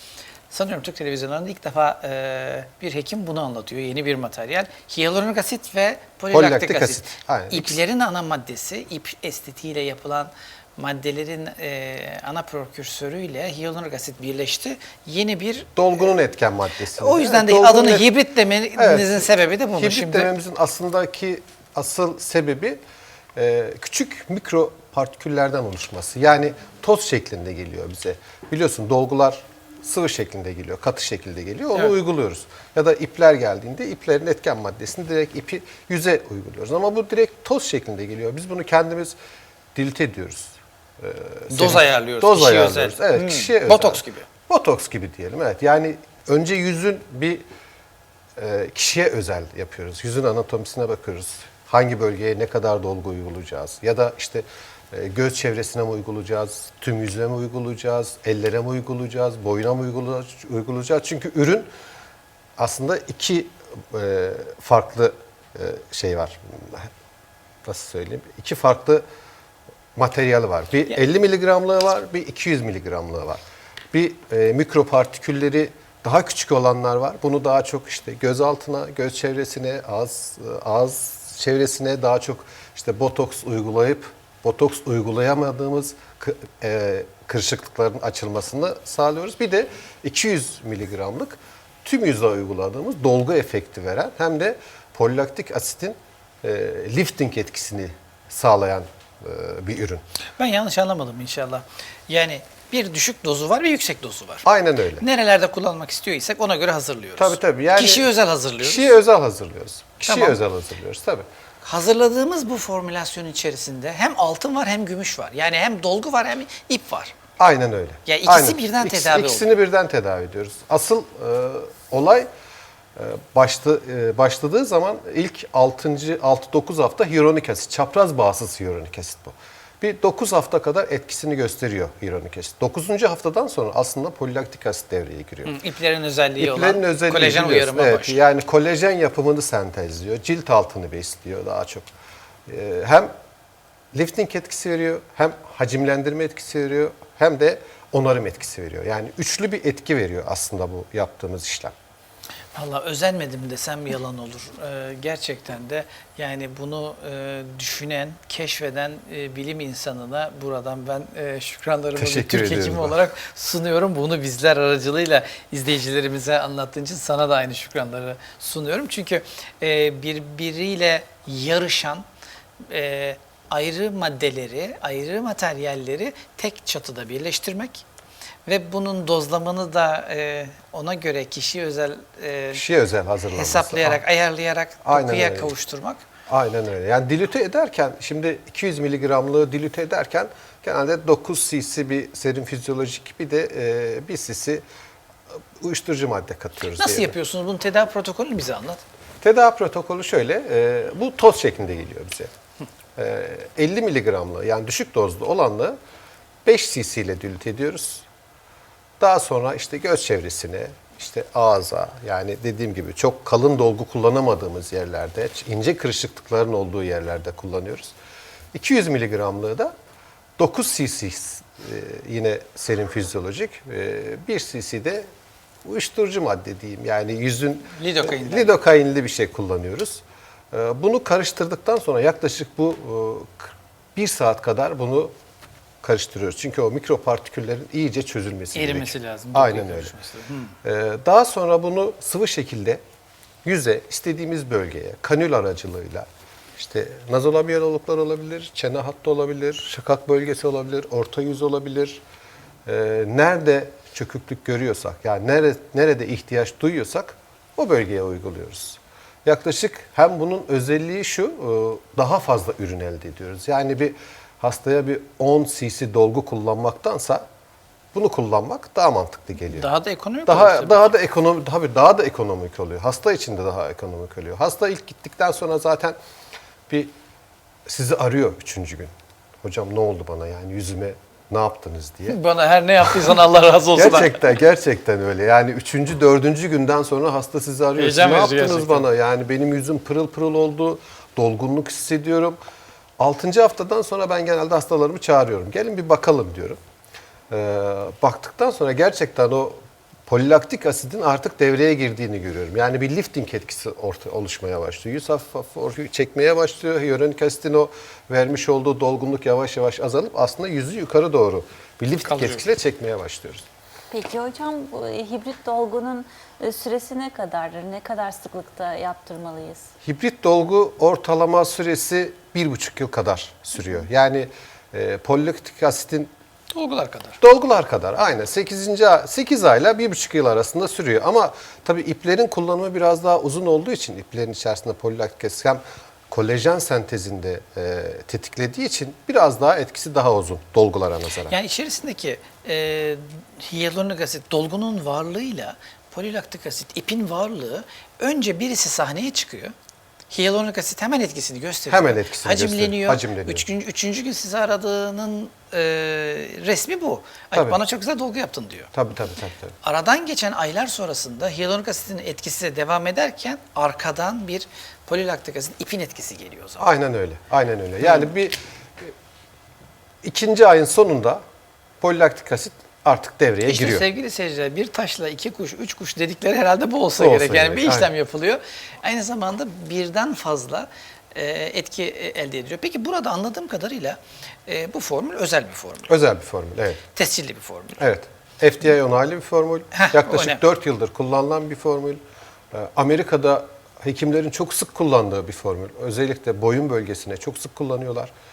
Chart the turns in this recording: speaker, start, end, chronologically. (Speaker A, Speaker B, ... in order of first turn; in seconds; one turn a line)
Speaker A: 0.5-15.8
Speaker B: 6.3-7.8
Speaker B: 15.8-18.1
Speaker A: 17.0-20.3
Speaker B: 18.8-22.8
Speaker B: 23.4-39.2
Speaker B: 39.8-47.4
Speaker A: 41.5-44.3
Speaker B: 48.4-61.7
Speaker B: 62.6-66.9
Speaker B: 67.6-69.0
Speaker B: 70.0-73.4
Speaker B: 73.9-100.0
Speaker A: 100.4-104.5
Speaker B: 104.5-105.0
Speaker A: 105.0-109.0
Speaker B: 107.2-108.1
Speaker B: 108.6-111.2
Speaker A: 110.0-110.4
Speaker A: 111.6-117.1
Speaker B: 117.4-122.3
Speaker A: 118.1-119.6
Speaker B: 123.0-135.6
Speaker A: 135.4-138.3
Speaker B: 136.4-141.9
Speaker B: 142.5-143.1
Speaker B: 143.9-151.7
Speaker A: 152.6-172.1
Speaker B: 162.0-163.0
Speaker A: 172.7-177.8
Speaker A: 178.5-182.6
Speaker B: 182.5-184.0
Speaker A: 183.3-186.0
Speaker B: 184.8-185.5
Speaker B: 186.3-194.6
Speaker B: 195.6-197.1
Speaker A: 196.7-198.8
Speaker B: 199.2-202.3
Speaker B: 203.0-205.8
Speaker B: 206.4-208.1
Speaker B: 209.0-217.9
Speaker B: 218.5-219.7
Speaker B: 220.4-225.1
Speaker B: 225.6-235.1
Speaker A: 227.8-228.6
Speaker B: 235.8-239.9
Speaker A: 238.5-240.5
Speaker B: 240.6-242.8
Speaker B: 243.4-252.0
Speaker B: 252.7-267.2
Speaker B: 267.9-269.7
Speaker A: 269.5-270.9
Speaker B: 270.3-276.0
Speaker B: 277.7-278.9
Speaker B: 279.4-282.2
Speaker A: 282.1-284.2
Speaker B: 283.8-292.4
Speaker A: 287.8-288.9
Speaker B: 293.0-296.6
Speaker B: 297.3-313.4
Speaker A: 312.1-312.5
Speaker C: 313.9-319.7
Speaker B: 319.8-326.1
Speaker A: 326.5-327.2
Speaker B: 327.2-341.4
Speaker A: 341.3-349.5
Speaker A: 350.1-358.7
Speaker B: 351.7-353.4
Speaker B: 357.3-357.6
Speaker B: 358.7-359.6
Speaker A: 359.6-366.6
Speaker B: 366.6-368.9
Speaker B: 370.0-371.2
Speaker B: 371.8-373.9
Speaker A: 373.4-385.9
Speaker B: 377.0-377.9
Speaker B: 385.9-386.8
Speaker A: 386.9-387.8
Speaker B: 387.8-392.0
Speaker A: 389.7-390.4
Speaker B: 392.5-398.1